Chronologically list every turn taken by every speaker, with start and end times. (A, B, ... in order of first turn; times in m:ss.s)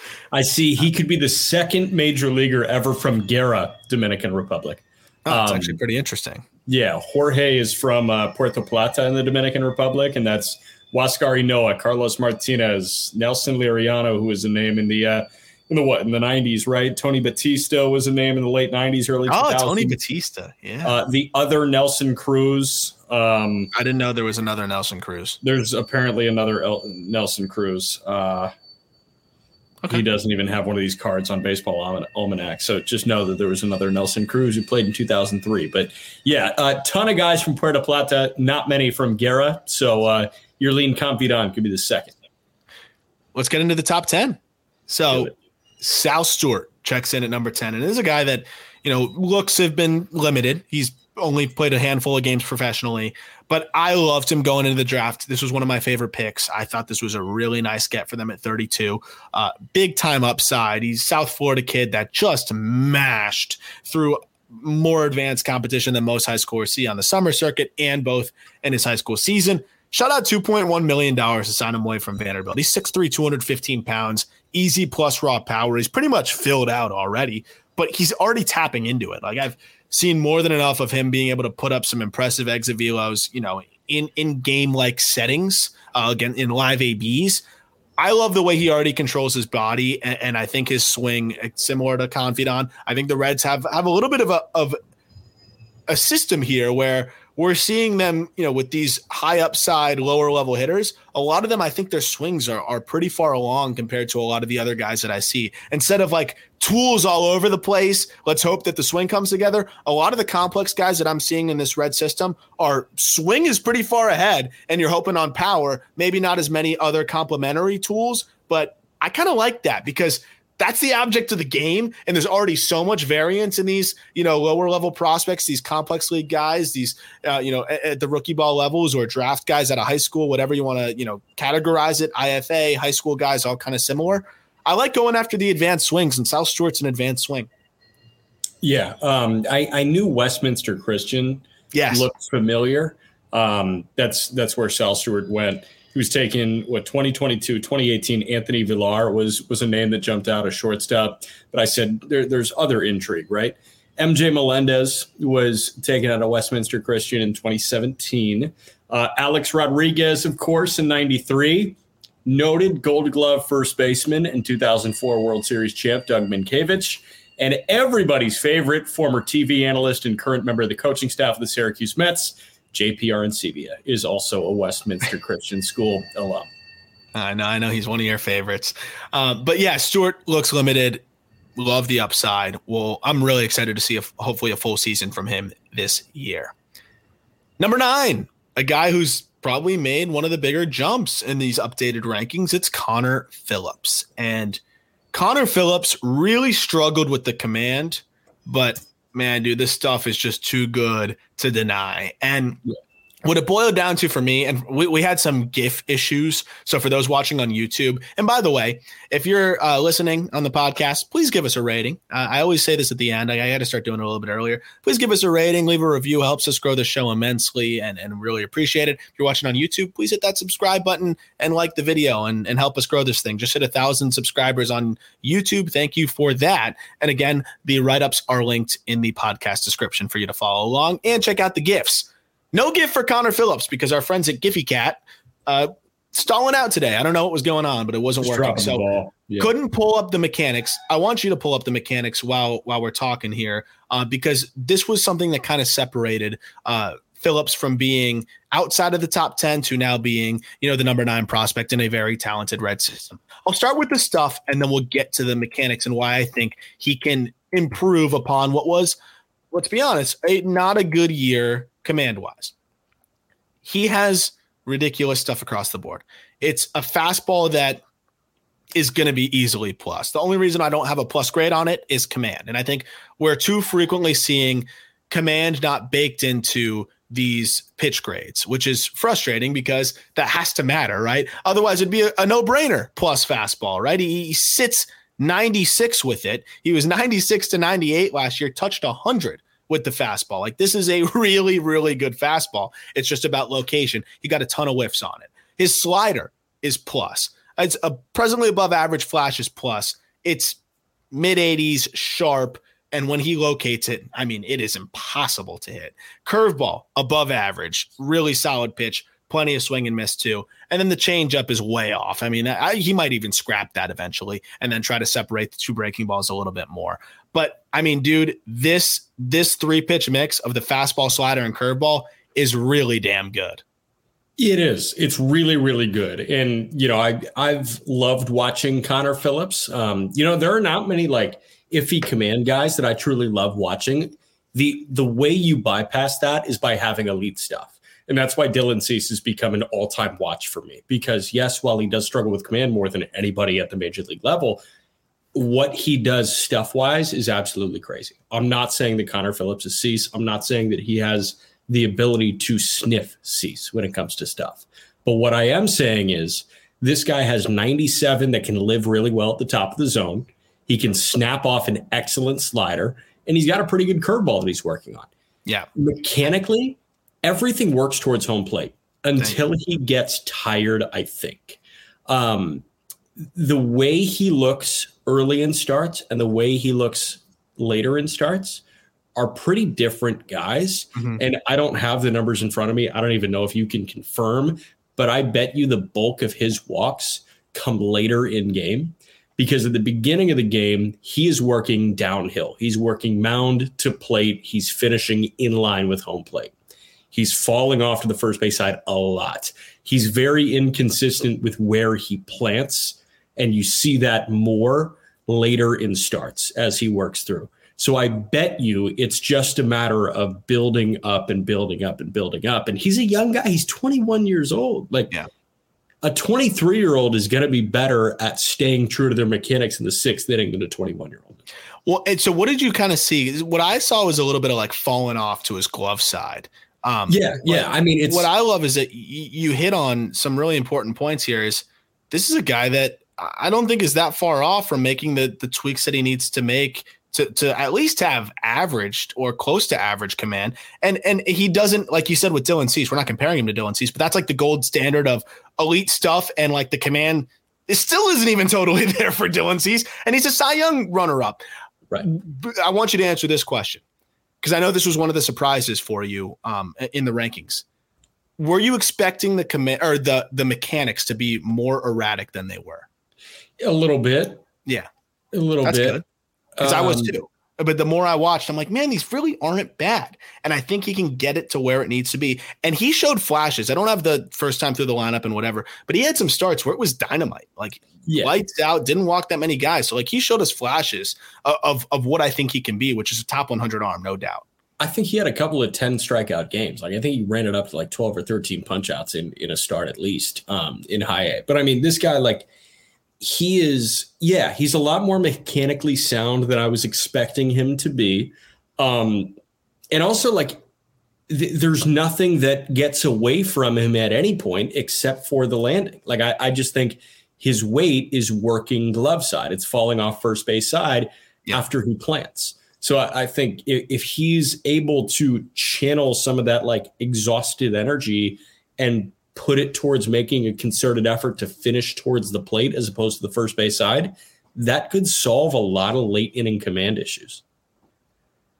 0:00.3-0:05.8 A
0:05.3-0:06.5 B
0:06.7-0:20.0 A
0:19.3-0:20.9 B
0:20.8-0:23.7 A
0:23.7-0:25.4 B
0:25.4-0:28.5 A
0:29.9-0:42.1 A
0:43.3-1:27.4 B
1:28.0-1:34.8 B
1:35.9-2:17.5 B
2:18.6-2:56.5 A
2:21.7-2:22.1 B
2:57.1-3:01.0 B
3:01.6-3:06.5 B
3:07.6-3:14.6 B
3:15.1-3:22.6 B
3:23.2-4:19.0 B
3:58.2-3:59.5 A
4:19.5-4:22.5 B
4:23.6-4:27.8 B
4:28.8-5:00.6 B
5:01.1-5:23.6 B
5:24.4-5:44.6 A
5:45.3-6:05.1 A
6:05.8-6:12.6 A
6:09.2-6:09.4 B
6:13.4-6:18.6 A
6:19.2-6:36.5 A
6:37.1-6:55.2 A
6:56.0-7:01.4 A
7:01.9-7:31.4 B
7:07.1-7:08.3 A
7:32.0-7:33.8 B
7:34.4-7:37.6 B
7:38.4-7:42.9 B
7:43.6-7:44.4 A
7:45.3-7:46.0 A
7:45.6-7:46.0 B
7:46.6-7:47.1 A
7:46.6-8:04.4 B
7:58.1-7:58.4 A
8:04.8-8:12.5 A
8:13.2-8:19.4 A
8:19.9-8:20.6 A
8:21.3-8:47.4 A